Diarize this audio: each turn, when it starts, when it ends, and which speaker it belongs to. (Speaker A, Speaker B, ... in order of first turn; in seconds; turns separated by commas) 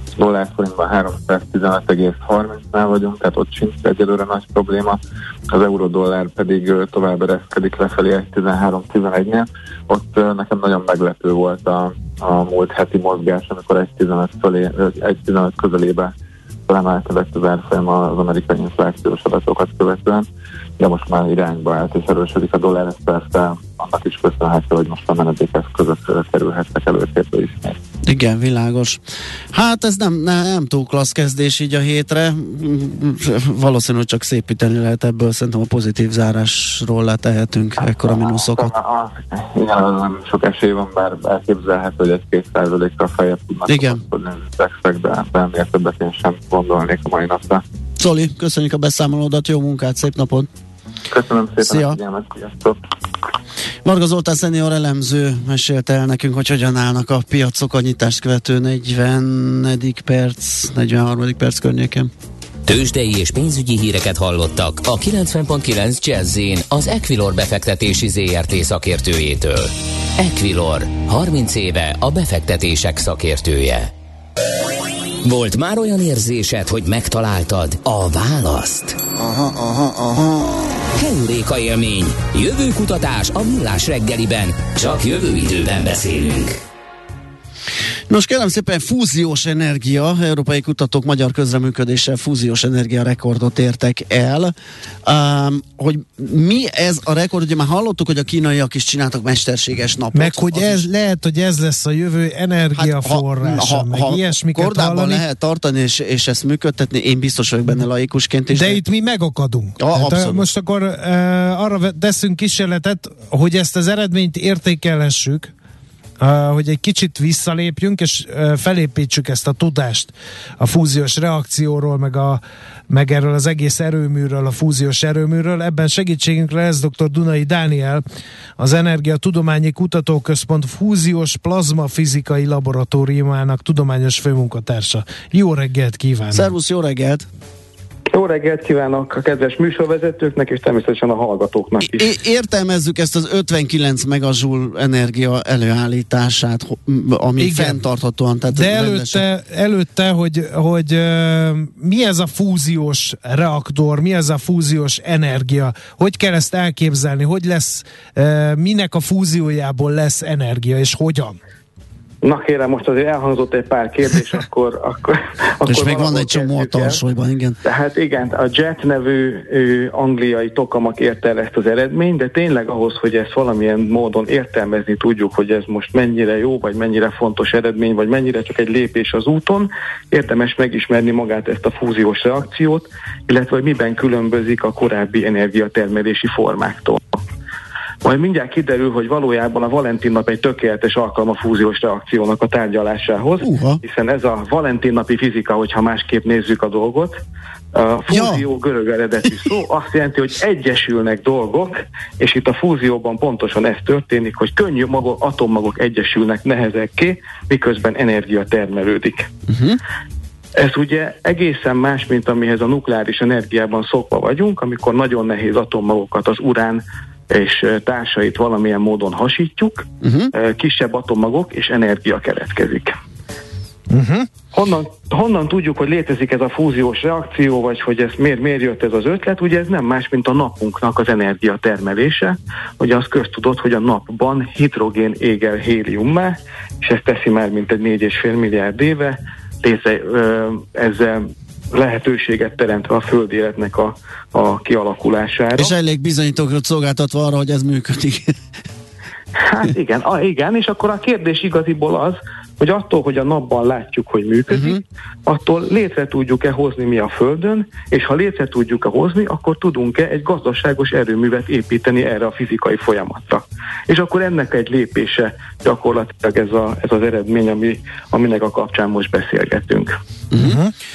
Speaker A: 0.1-5.0, Speaker A: 5.5-16.1, Speaker A: 16.7-20.2, Speaker A: 20.8-27.8, Speaker B: 28.0-29.0, Speaker B: 29.5-38.7, Speaker A: 38.2-47.6, Speaker B: 43.7-44.0, Speaker B: 48.0-50.5, Speaker A: 51.1-52.8, Speaker B: 51.6-52.0, Speaker B: 53.8-62.1, Speaker C: 62.7-73.9, Speaker C: 75.2-79.0, Speaker B: 79.4-80.1, Speaker C: 80.9-86.6, Speaker B: 88.1-94.5, Speaker B: 95.0-100.8, Speaker D: 100.1-105.2, Speaker B: 102.7-108.8, Speaker D: 108.5-115.5, Speaker B: 109.8-110.5, Speaker D: 116.2-128.0, Speaker D: 128.6-136.5, Speaker B: 136.3-137.3, Speaker E: 138.1-142.1, Speaker B: 141.8-149.2, Speaker D: 147.4-147.8, Speaker D: 148.5-161.4, Speaker E: 162.2-167.0, Speaker B: 165.6-167.6, Speaker E: 167.6-187.1, Speaker E: 188.0-197.2, Speaker B: 193.4-193.8, Speaker E: 197.7-209.3, Speaker B: 198.1-198.4, Speaker B: 209.5-209.8, Speaker E: 210.6-222.9, Speaker B: 220.0-220.3, Speaker D: 223.9-224.3, Speaker E: 224.5-245.7, Speaker B: 245.5-248.4, Speaker E: 249.4-269.9, Speaker B: 254.5-254.8, Speaker B: 270.3-270.6, Speaker D: 270.4-270.7